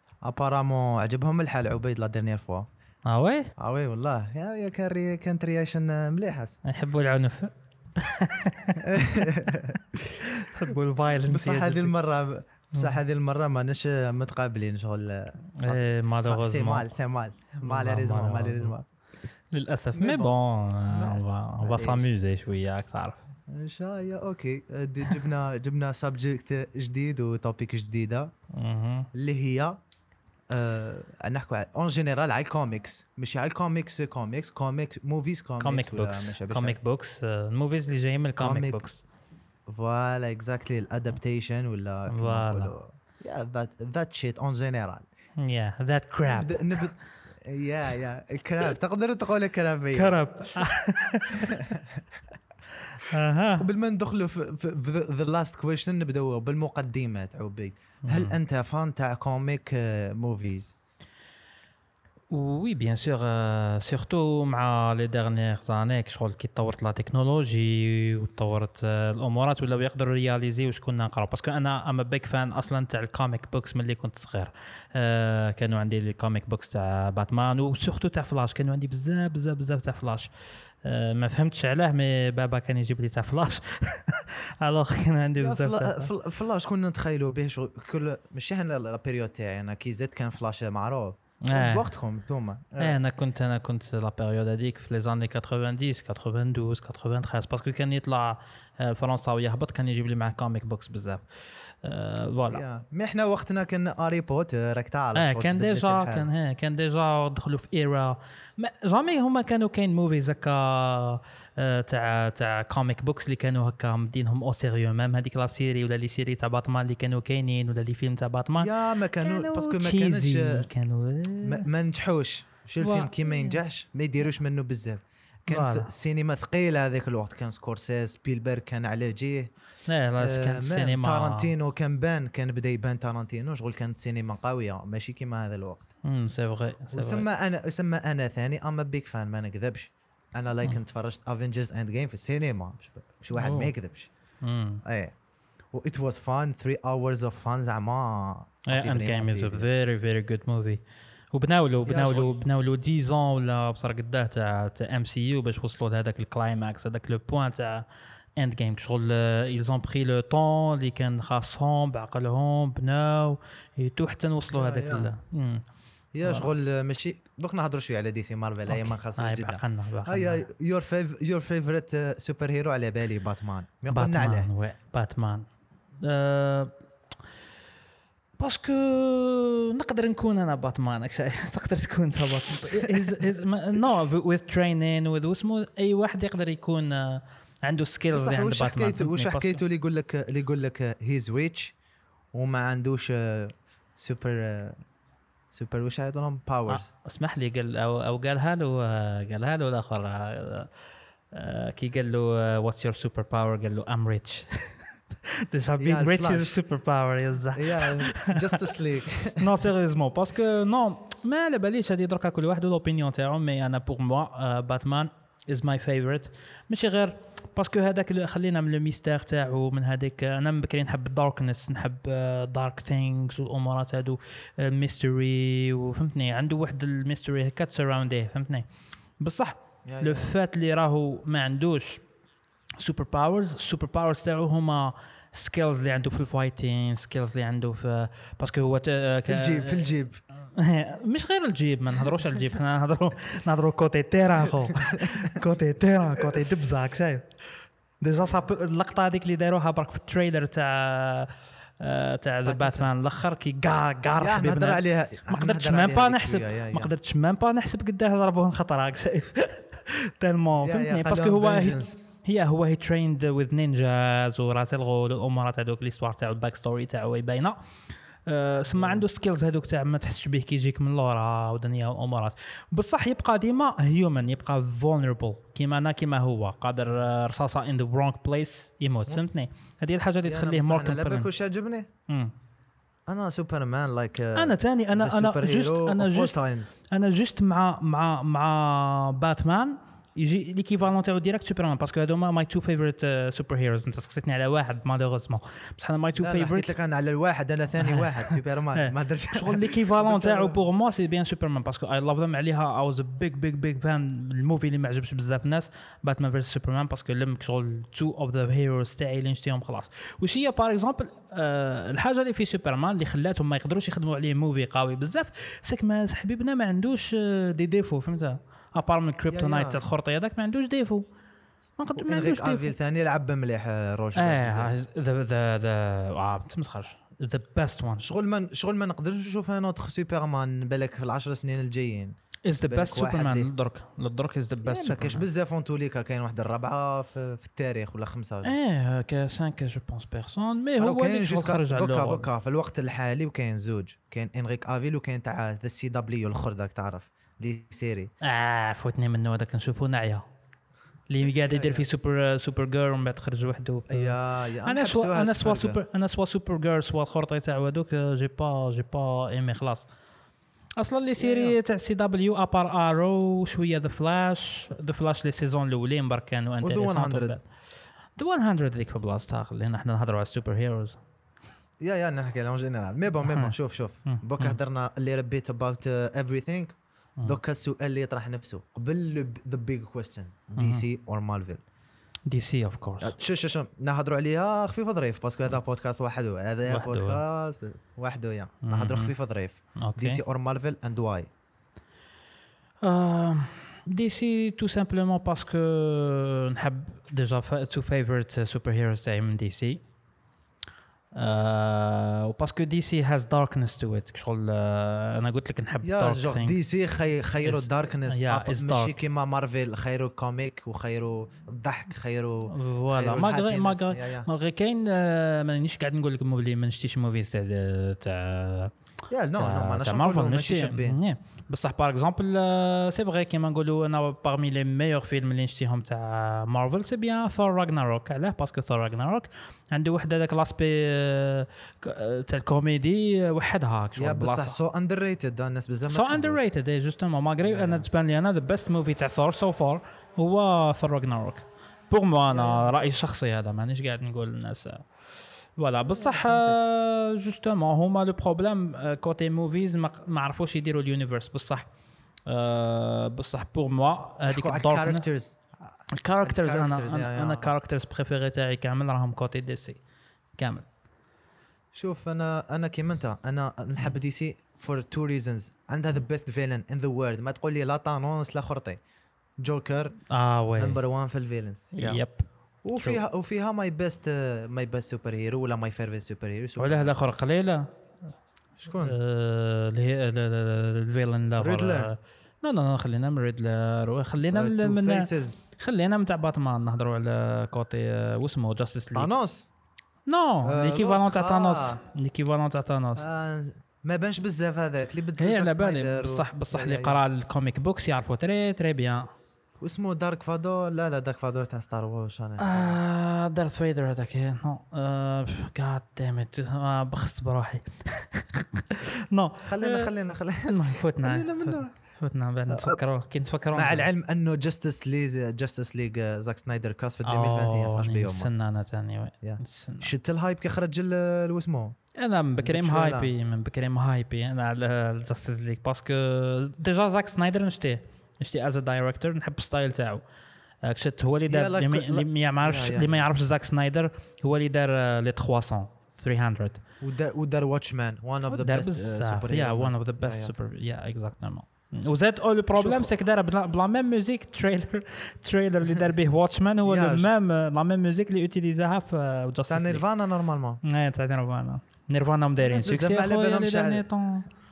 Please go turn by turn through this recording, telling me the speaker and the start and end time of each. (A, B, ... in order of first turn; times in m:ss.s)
0:00.2-0:02.7 A
0:03.0-0:03.5 B
0:03.6-0:06.6 A
0:06.6-0:09.3 B
0:08.8-0:10.7 A
0:10.4-0:11.9 B
0:11.3-0:18.9 A
0:15.6-0:16.9 B
0:17.6-0:18.7 B
0:19.5-0:23.2 B
0:19.9-0:20.3 A
0:20.9-0:22.1 A
0:23.5-0:28.3 A
0:28.5-0:29.1 B
0:29.1-0:29.8 A
0:30.5-0:36.8 A
0:35.6-0:39.0 B
0:38.4-0:38.8 A
0:39.7-0:45.0 A
0:42.1-0:42.8 B
0:45.4-0:46.8 B
0:46.3-0:50.6 A
0:50.0-0:51.6 B
0:51.4-0:52.0 A
0:53.0-0:53.6 B
0:53.6-1:00.7 A
0:58.0-0:58.4 B
1:02.3-1:20.3 B
1:20.8-1:26.1 B
1:25.4-1:33.0 A
1:31.4-1:31.9 B
1:32.8-1:42.6 B
1:42.5-1:46.3 A
1:45.2-2:01.6 B
1:58.6-2:00.7 A
2:01.4-2:09.5 A
2:02.8-2:03.6 B
2:05.5-2:05.9 B
2:09.9-2:11.5 B
2:10.2-2:15.9 A
2:16.0-2:17.2 B
2:16.9-2:24.1 A
2:23.4-2:23.8 B
2:24.4-2:24.8 B
2:24.8-2:25.2 A
2:25.7-2:29.7 A
2:28.7-2:45.7 B
2:31.8-2:32.4 A
2:44.5-2:45.1 A
2:46.2-2:54.5 A
2:48.7-2:50.4 B
2:53.9-2:55.4 B
2:56.0-2:56.7 B
2:58.4-3:09.6 B
3:02.7-3:03.2 A
3:08.1-3:11.8 A
3:12.3-3:14.8 A
3:15.5-3:16.9 A
3:16.7-3:20.7 B
3:21.3-3:24.8 B
3:25.5-3:28.7 B
3:25.8-3:26.6 A
3:27.5-3:29.5 A
3:29.4-3:48.7 B
3:49.2-3:52.0 B
3:49.8-3:50.3 A
3:52.8-4:00.0 B
3:59.3-4:00.2 A
4:00.5-4:07.3 B
4:04.7-4:05.4 A
4:06.2-4:06.5 A
4:08.0-4:27.6 B
4:12.5-4:12.9 A
4:14.2-4:16.9 A
4:20.6-4:22.0 A
4:28.3-4:41.3 B
4:28.7-4:29.0 A
4:40.2-4:41.9 A
4:42.1-4:42.3 B
4:43.1-4:46.8 A
4:44.4-4:46.4 B
4:46.9-4:56.7 B
4:56.2-5:00.6 A
4:57.8-5:21.0 B
5:19.3-5:19.8 A
5:21.8-5:22.7 B
5:22.0-5:24.7 A
5:24.2-5:28.0 B
5:28.0-5:33.5 A
5:32.5-5:35.2 B
5:34.6-5:38.5 A
5:38.4-5:42.3 B
5:40.8-5:48.1 A
5:48.2-5:50.2 B
5:51.1-5:59.9 B
5:51.3-5:51.9 A
5:53.9-5:55.8 A
6:00.8-6:07.4 B
6:01.2-6:01.6 A
6:06.6-6:07.4 A
6:08.2-6:11.0 B
6:11.8-6:21.6 A
6:13.3-6:13.5 B
6:14.0-6:14.6 B
6:20.6-6:20.8 B
6:22.3-6:23.1 B
6:23.0-6:31.3 A
6:26.7-6:27.2 B
6:28.6-6:29.1 B
6:29.8-6:30.2 B
6:32.8-6:39.8 B
6:41.1-6:46.6 B
6:45.8-6:54.3 A
6:47.4-6:49.0 B
6:52.5-6:58.7 B
6:59.1-7:01.0 A
6:59.4-7:14.6 B
7:14.0-7:16.4 A
7:15.9-7:24.9 B
7:17.4-7:17.9 A
7:22.3-7:22.8 A
7:25.6-7:31.7 B
7:25.8-7:26.6 A
7:32.3-7:35.0 B
7:34.3-7:35.4 A
7:35.9-7:39.8 B
7:36.2-7:37.5 A
7:40.4-7:40.7 B
7:41.7-7:48.8 A
7:49.4-7:50.0 A
7:50.1-7:50.8 B
7:50.6-7:52.0 A
7:51.8-7:53.0 B
7:52.6-7:56.9 A
7:56.6-7:57.7 B
7:58.6-7:58.9 A
7:58.8-8:09.1 B
8:01.4-8:01.9 A
8:04.2-8:05.4 A
8:08.9-8:09.5 A
8:10.1-8:13.0 B
8:10.4-8:11.8 A
8:13.0-8:17.0 A
8:15.2-8:19.1 B
8:19.6-8:22.8 A
8:22.4-8:29.9 B
8:29.5-8:31.8 A
8:30.5-8:33.9 B
8:32.5-8:32.8 A
8:33.5-8:38.3 A
8:37.0-8:39.9 B
8:39.2-8:41.8 A
8:42.0-8:50.0 B
8:42.4-8:43.1 A
8:50.6-8:56.6 B
8:51.3-8:53.1 A
8:56.8-9:00.3 A
8:58.3-9:09.8 B
9:02.6-9:02.9 A
9:06.7-9:07.1 A
9:09.5-9:10.6 A
9:10.6-9:14.3 B
9:12.4-9:13.8 A